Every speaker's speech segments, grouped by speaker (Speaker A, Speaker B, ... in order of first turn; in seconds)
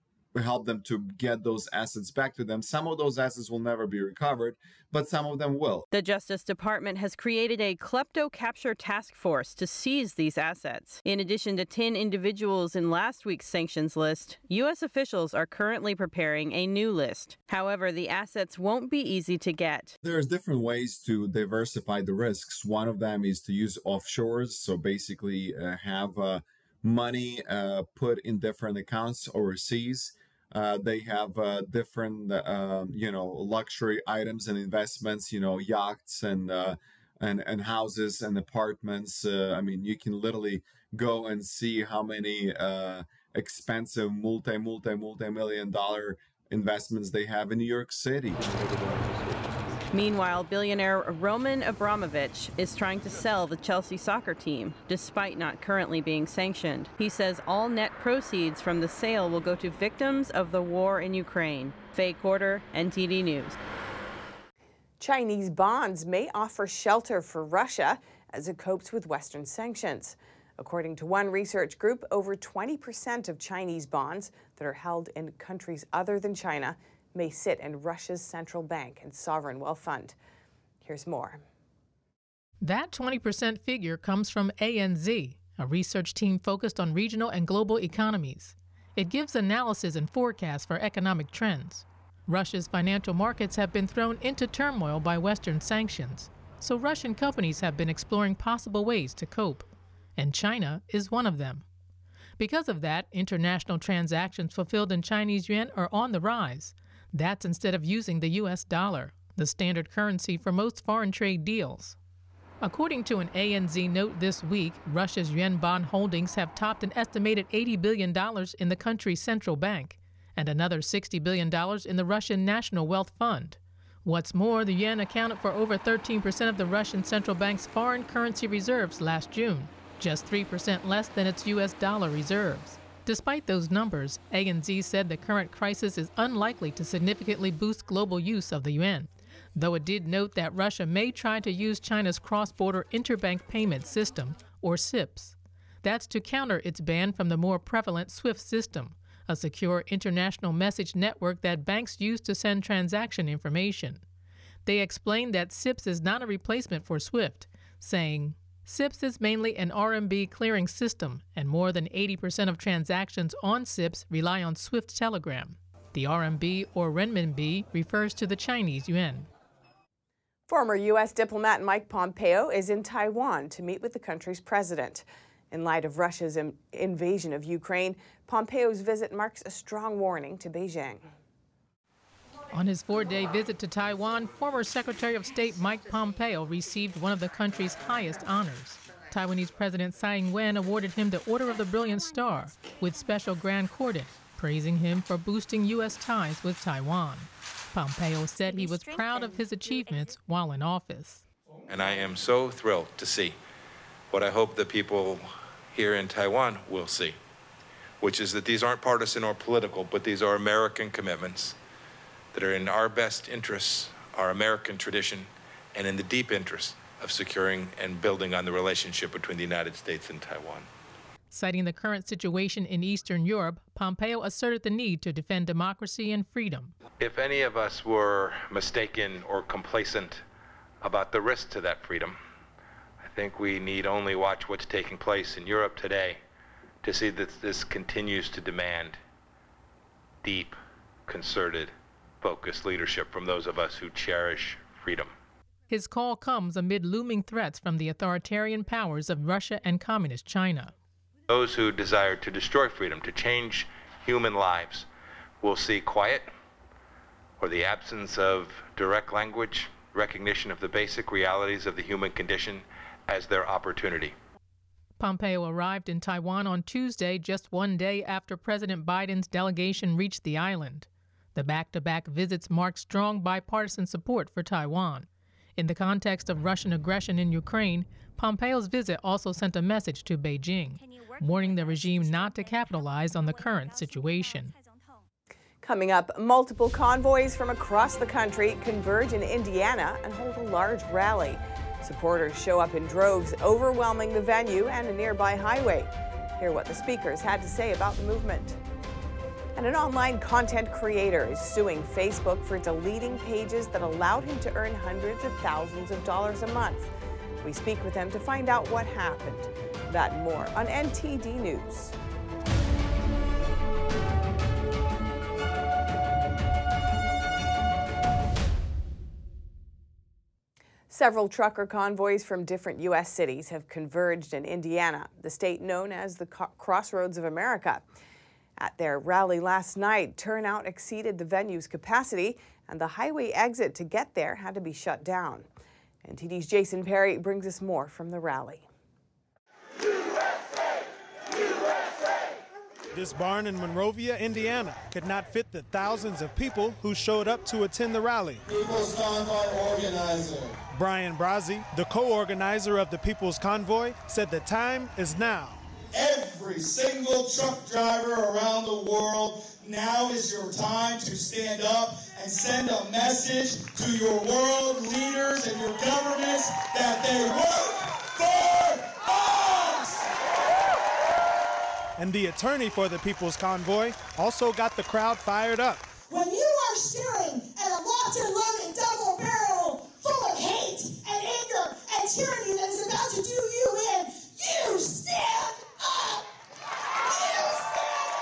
Speaker A: 0.3-5.9, 20.0-48.4
Speaker B: 5.9-19.9, 49.9-63.5
Speaker C: 65.0-80.2, 80.8-81.4, 170.5-181.1, 285.6-298.6, 299.5-306.9, 307.4-311.9, 320.9-327.8, 328.6-335.5, 336.0-338.6
Speaker D: 82.6-101.6, 102.4-112.0, 112.6-154.0, 154.7-169.3, 182.5-201.2, 221.3-226.7, 245.7-250.7, 265.0-284.5
Speaker E: 201.7-203.4, 204.1-207.2, 208.0-211.6, 212.3-220.7, 227.0-230.2, 230.8-232.2, 233.0-236.2, 236.8-239.0, 240.2-240.6, 241.1-245.1, 251.3-254.9, 255.4-256.3, 257.4-264.1
Speaker F: 342.9-348.4, 350.7-355.6, 372.0-375.9
Speaker G: 348.4-350.6, 355.9-370.1